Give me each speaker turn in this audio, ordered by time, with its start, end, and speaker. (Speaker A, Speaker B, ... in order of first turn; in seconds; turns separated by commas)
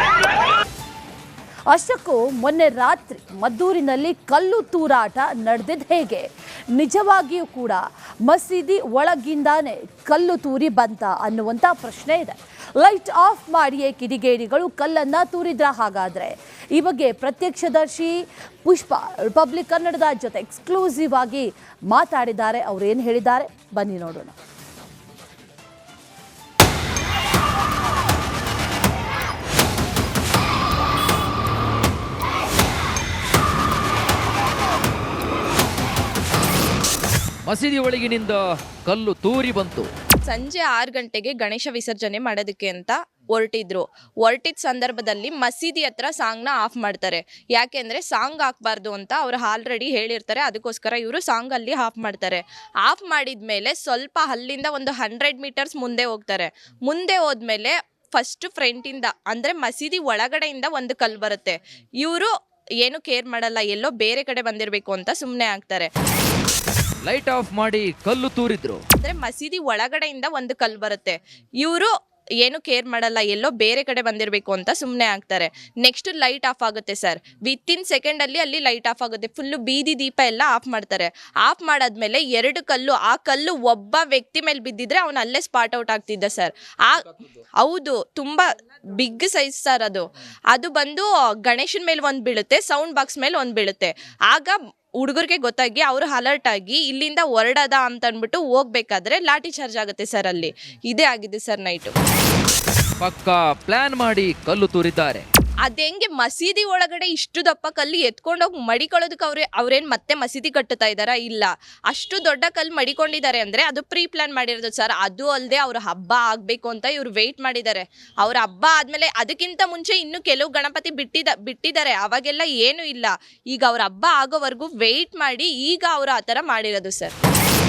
Speaker A: 1.7-24.3, Speaker B: 37.5-39.9, Speaker C: 40.3-62.3, Speaker C: 62.8-65.9, Speaker B: 67.0-68.8, Speaker C: 69.0-71.9, Speaker C: 72.4-101.9, Speaker B: 103.0-105.2, Speaker C: 105.6-127.1